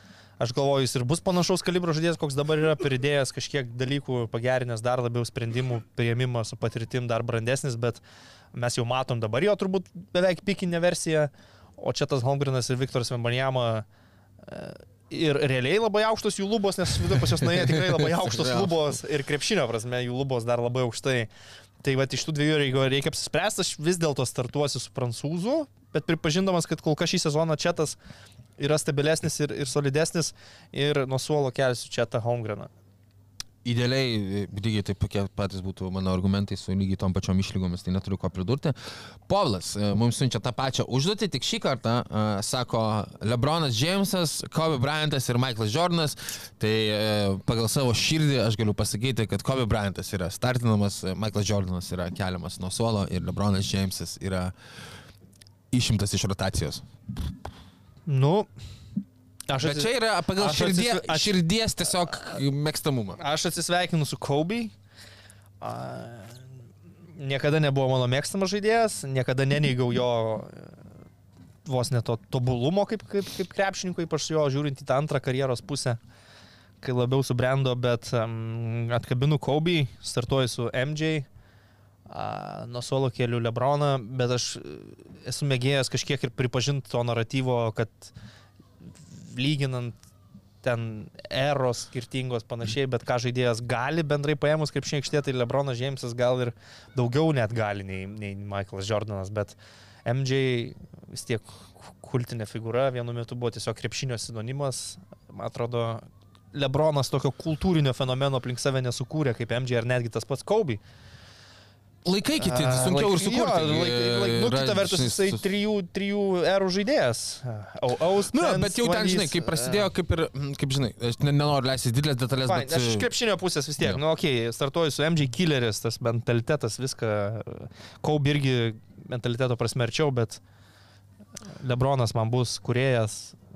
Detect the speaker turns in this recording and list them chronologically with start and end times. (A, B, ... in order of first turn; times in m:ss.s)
0:00.4-0:08.0 A
0:08.5-0:13.8 A
0:14.4-0:21.3 A
0:17.4-0:18.8 B
0:21.8-0:28.0 A
0:28.6-0:32.7 A
0:33.6-0:54.5 B
0:55.7-0:56.8 B
0:58.1-0:58.5 A
0:59.5-1:01.4 A
0:59.6-1:03.2 B
1:03.2-1:04.7 A
1:05.6-1:06.4 A
1:07.2-1:10.7 A
1:11.6-1:16.0 A
1:16.8-1:21.3 A
1:22.1-1:28.1 A
1:28.9-1:30.0 A
1:30.6-1:50.8 A
1:52.0-1:55.4 B
1:52.4-1:59.9 A
1:58.3-2:03.1 B
2:02.4-2:10.4 A
2:11.6-2:13.4 A